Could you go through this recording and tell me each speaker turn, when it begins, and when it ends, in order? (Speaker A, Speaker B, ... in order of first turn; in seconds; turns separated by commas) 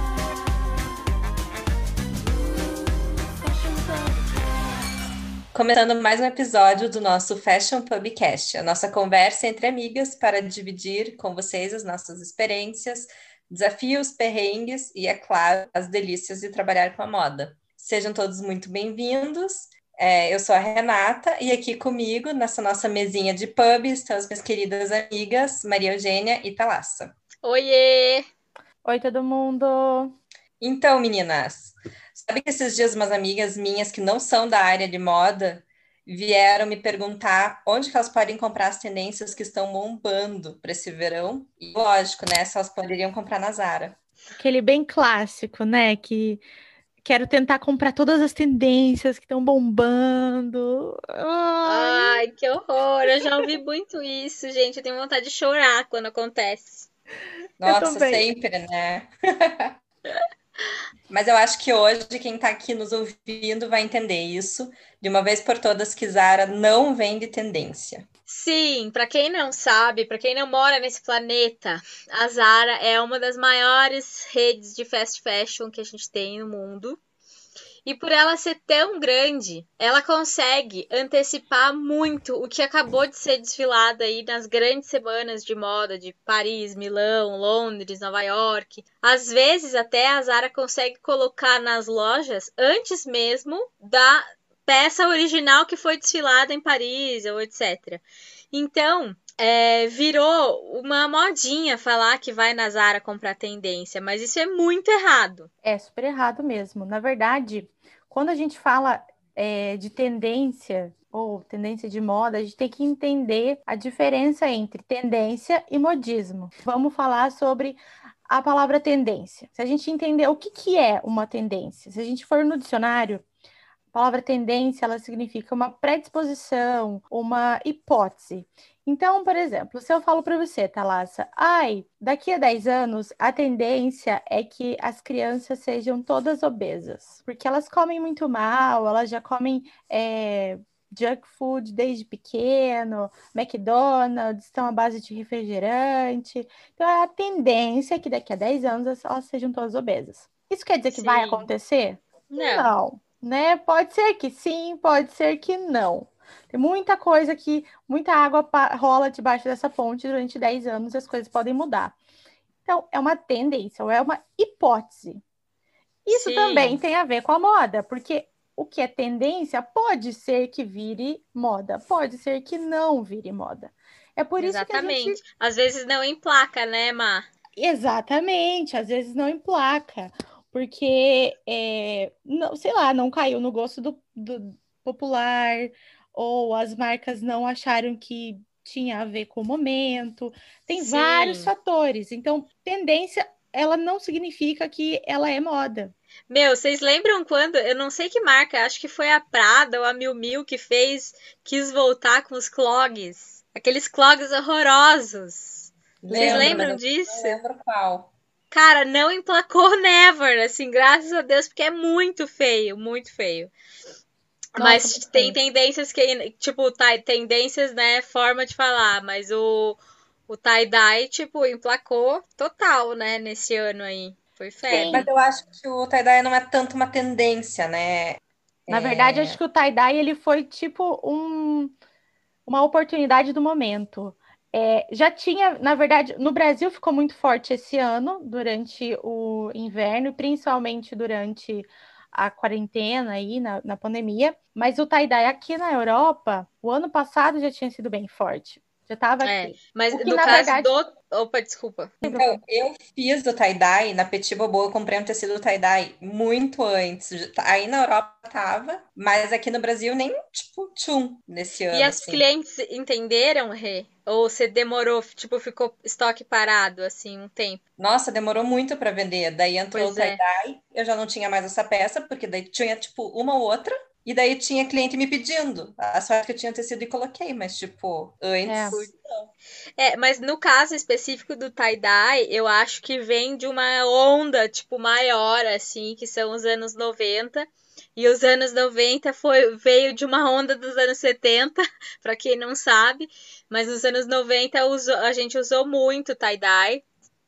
Speaker A: 5.5-27.1, Speaker B: 27.4-28.2, Speaker C: 28.8-30.1, Speaker A: 30.6-44.0, Speaker C: 44.4-46.4, Speaker C: 47.0-52.2, Speaker B: 51.6-56.9, Speaker A: 57.6-59.7, Speaker C: 57.6-58.2, Speaker A: 61.1-68.0, Speaker B: 68.3-77.0, Speaker B: 77.8-105.5, Speaker C: 105.6-123.2, Speaker C: 123.9-161.9, Speaker B: 150.9-151.5, Speaker B: 152.3-152.7, Speaker C: 162.6-165.2, Speaker C: 166.0-175.2, Speaker B: 166.1-166.8, Speaker B: 174.4-177.2, Speaker C: 177.6-195.9, Speaker B: 190.7-191.5, Speaker B: 196.3-207.4, Speaker A: 206.0-208.1, Speaker C: 206.1-206.7, Speaker B: 208.5-213.5, Speaker B: 214.5-225.0, Speaker C: 214.6-215.3, Speaker C: 224.7-225.1, Speaker A: 224.7-229.4, Speaker C: 228.7-231.7, Speaker C: 232.4-250.7, Speaker B: 249.2-252.0, Speaker C: 252.0-252.4, Speaker A: 252.0-262.2, Speaker B: 261.7-267.6, Speaker A: 267.8-279.3, Speaker B: 269.7-270.2, Speaker C: 278.4-278.8, Speaker B: 279.8-296.8